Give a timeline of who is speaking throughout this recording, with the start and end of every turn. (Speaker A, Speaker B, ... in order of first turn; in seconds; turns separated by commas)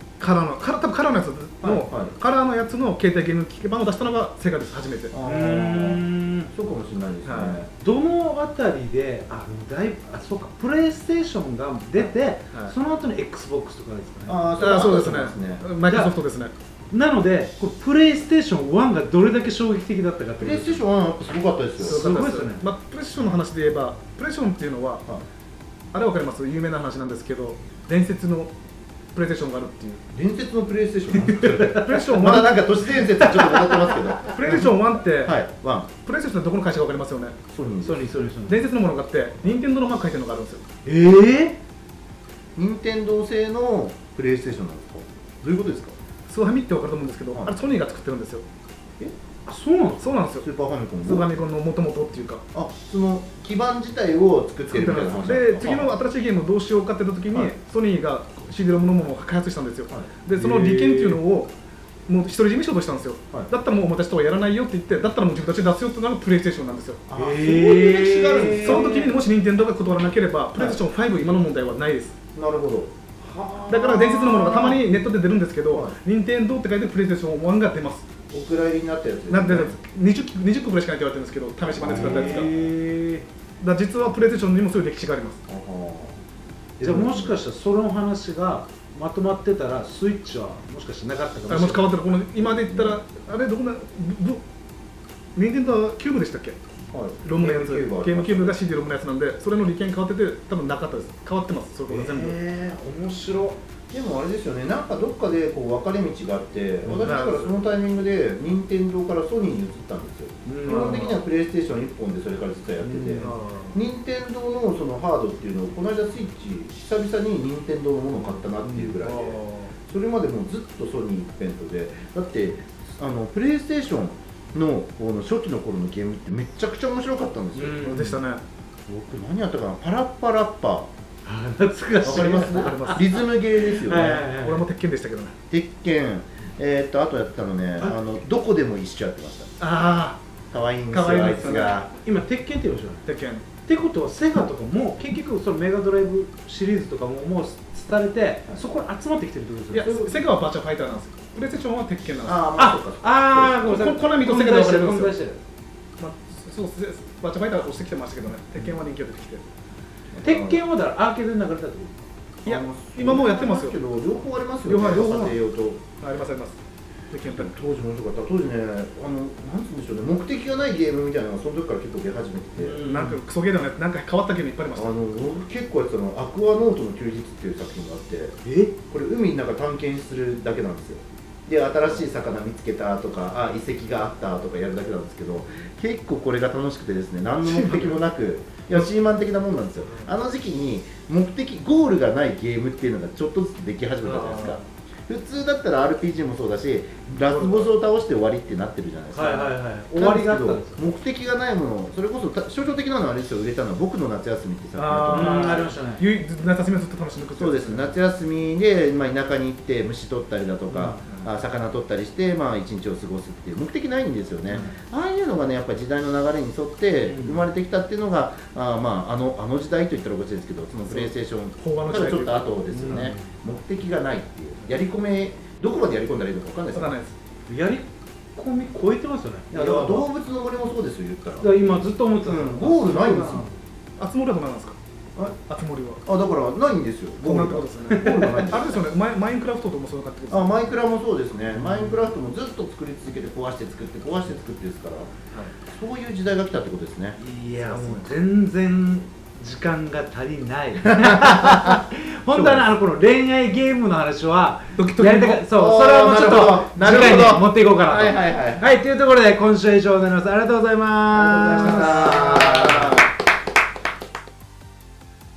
Speaker A: 0.2-5.1, Speaker B: 1.6-2.1, Speaker B: 5.1-7.7, Speaker C: 5.2-6.5, Speaker A: 7.3-7.6, Speaker C: 7.8-14.4, Speaker A: 12.0-12.7, Speaker B: 14.3-15.6, Speaker A: 14.6-16.5, Speaker C: 15.9-16.1, Speaker C: 16.9-20.8, Speaker B: 20.4-22.0, Speaker C: 21.8-22.6, Speaker A: 21.8-25.1, Speaker A: 25.9-28.5, Speaker A: 29.1-30.0, Speaker B: 30.1-35.9, Speaker C: 31.3-32.1, Speaker A: 31.8-32.6, Speaker C: 33.2-34.1, Speaker A: 34.3-35.4, Speaker A: 36.0-37.4, Speaker B: 37.5-38.1, Speaker C: 37.8-38.7, Speaker A: 38.5-40.6, Speaker C: 40.9-41.6, Speaker B: 42.6-46.0, Speaker A: 46.3-48.5, Speaker C: 49.5-50.1, Speaker A: 50.0-50.5, Speaker B: 50.3-51.3, Speaker A: 51.0-52.4, Speaker B: 52.5-56.0, Speaker A: 54.7-61.5, Speaker C: 60.3-61.2, Speaker A: 62.1-67.0, Speaker B: 67.1-68.9, Speaker C: 67.2-69.2, Speaker A: 68.6-72.2, Speaker B: 70.6-70.8, Speaker B: 72.3-72.9, Speaker C: 73.2-74.7, Speaker A: 73.7-78.1, Speaker B: 74.3-74.8, Speaker B: 75.7-76.0, Speaker B: 78.3-79.8, Speaker A: 79.3-82.5, Speaker B: 81.8-82.5, Speaker C: 81.8-83.3, Speaker A: 83.6-85.4, Speaker B: 85.5-86.2, Speaker B: 86.8-87.4, Speaker C: 86.8-91.9, Speaker A: 91.5-94.4, Speaker B: 92.4-93.0, Speaker A: 95.4-96.6, Speaker B: 96.9-98.6, Speaker A: 97.2-102.4, Speaker C: 101.9-103.6, Speaker B: 103.9-128.2, Speaker A: 107.0-107.5, Speaker C: 110.5-111.1, Speaker A: 110.6-111.2, Speaker C: 112.8-113.3, Speaker A: 113.2-113.8, Speaker C: 118.2-118.9, Speaker A: 119.0-119.7, Speaker C: 127.5-128.1, Speaker A: 127.8-128.4, Speaker B: 128.9-130.9, Speaker C: 131.2-134.7, Speaker B: 132.0-134.3, Speaker A: 132.5-133.1, Speaker A: 134.2-135.3, Speaker B: 135.5-139.6, Speaker A: 139.6-140.2, Speaker B: 140.5-141.9, Speaker A: 140.9-141.8, Speaker C: 142.0-143.1, Speaker A: 143.1-143.5, Speaker C: 143.6-150.1, Speaker A: 149.7-152.4, Speaker B: 152.2-153.7, Speaker C: 152.6-155.4, Speaker A: 153.7-155.2, Speaker A: 156.0-159.4, Speaker B: 160.1-160.6, Speaker C: 160.2-162.0, Speaker B: 162.4-165.8, Speaker A: 162.4-163.8, Speaker A: 164.7-165.4, Speaker A: 166.0-166.6, Speaker A: 167.1-167.5, Speaker B: 167.3-172.8, Speaker C: 172.6-173.2, Speaker A: 172.8-174.9, Speaker B: 174.7-205.6, Speaker C: 178.4-178.7, Speaker A: 187.4-188.0, Speaker A: 194.0-194.6, Speaker A: 197.2-197.7, Speaker C: 199.1-200.8, Speaker A: 204.8-208.0, Speaker C: 205.1-206.0, Speaker B: 207.4-227.0, Speaker C: 210.7-211.0, Speaker C: 214.5-214.7, Speaker C: 217.1-217.5, Speaker A: 220.9-223.1, Speaker C: 222.7-223.3, Speaker A: 226.7-227.2, Speaker C: 227.5-230.1, Speaker B: 229.5-231.6, Speaker C: 231.4-233.6, Speaker B: 232.2-233.4, Speaker A: 234.0-234.8, Speaker A: 235.5-236.0, Speaker B: 236.1-238.9, Speaker A: 237.2-240.7, Speaker C: 237.9-238.3, Speaker B: 240.3-245.1, Speaker C: 241.5-242.1, Speaker B: 245.7-247.2, Speaker C: 247.2-263.0, Speaker A: 247.7-248.1, Speaker B: 250.8-251.8, Speaker B: 252.3-252.7, Speaker A: 254.8-255.4, Speaker B: 255.5-258.7, Speaker B: 261.1-263.0, Speaker A: 261.6-262.4